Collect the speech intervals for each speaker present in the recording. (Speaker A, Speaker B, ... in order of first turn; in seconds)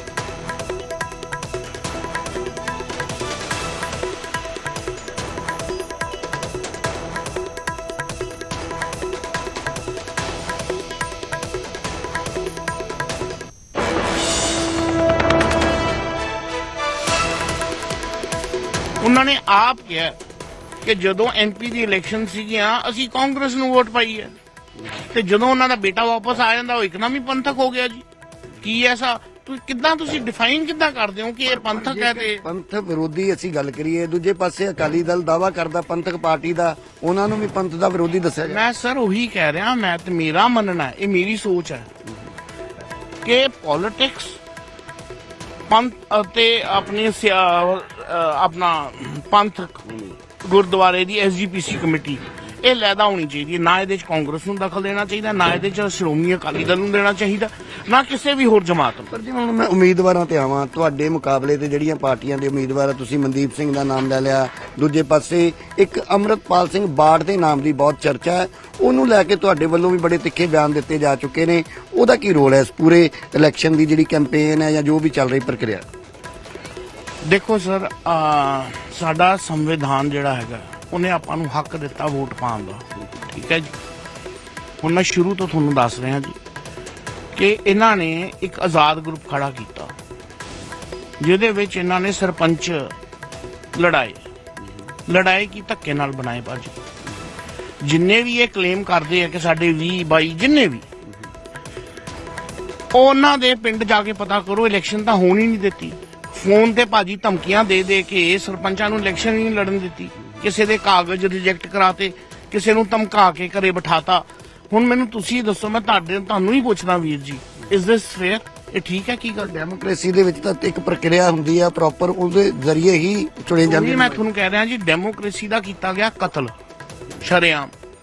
Speaker A: 19.0-20.2, 20.8-24.3, 25.1-28.1, 28.6-32.4, 38.5-41.9, 43.2-44.4, 45.7-59.2, 77.2-83.8, 84.8-86.4, 87.3-89.9, 91.2-92.9, 93.7-94.2, 95.1-96.8, 97.8-100.9, 102.9-119.5, 123.6-126.5, 127.2-127.7
Speaker B: 31.6-38.6, 59.1-75.9, 119.4-124.2